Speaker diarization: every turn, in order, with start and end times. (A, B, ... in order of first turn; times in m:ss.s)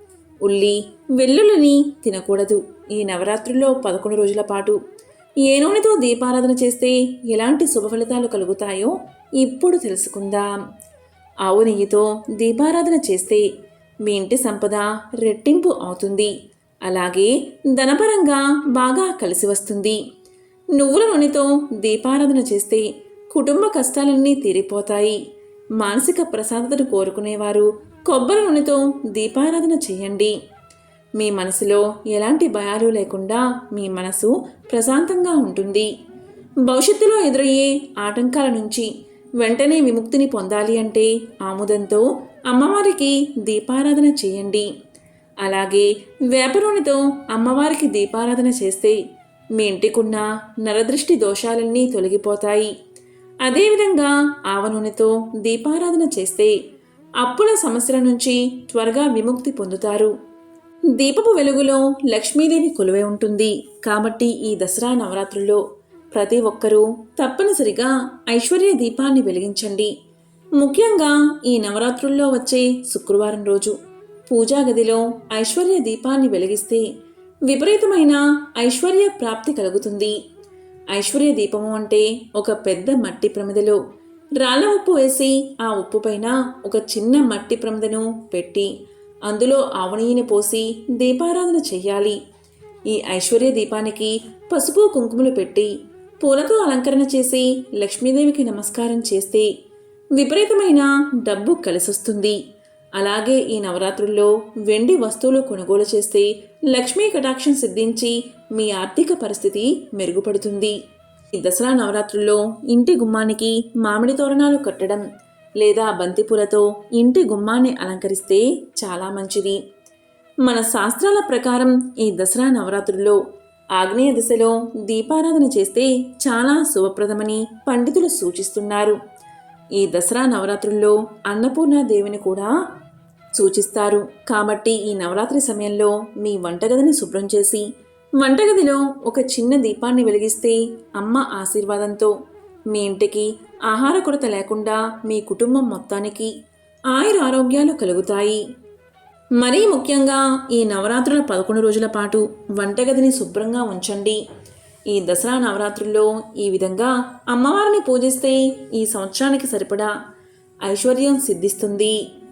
0:00.4-0:04.8 A
0:05.4-0:10.5 A
0:11.4-0:13.5 A
0:14.0-0:16.3 A
0:16.8-0:20.0 A
0:20.7-0:25.2 A
0:25.8-0:30.3 A
0:31.2-0:35.9 A
0:36.6-0:38.9 A
0:39.4-0:44.7 A
0:45.4-0:49.0 A
0:49.6-0:52.7 A
0:53.4-0:56.5 A
0:57.2-1:00.1 A
1:01.0-1:05.6 A
1:06.1-1:09.9 A
1:10.6-1:13.7 A
1:14.3-1:16.8 A
1:17.5-1:20.1 A
1:20.9-1:23.8 A
1:24.4-1:28.7 A
1:29.3-1:32.2 A
1:32.9-1:39.5 A
1:40.1-1:42.4 A
1:43.0-1:50.7 A
1:51.3-1:55.0 A
1:55.6-1:59.6 A
2:00.4-2:03.2 A
2:03.8-2:09.0 A
2:09.8-2:12.5 A
2:13.3-2:17.6 A
2:18.2-2:22.1 A
2:22.7-2:26.3 A
2:26.9-2:28.4 A
2:29.4-2:34.2 A
2:34.9-2:39.9 A
2:40.6-2:42.0 A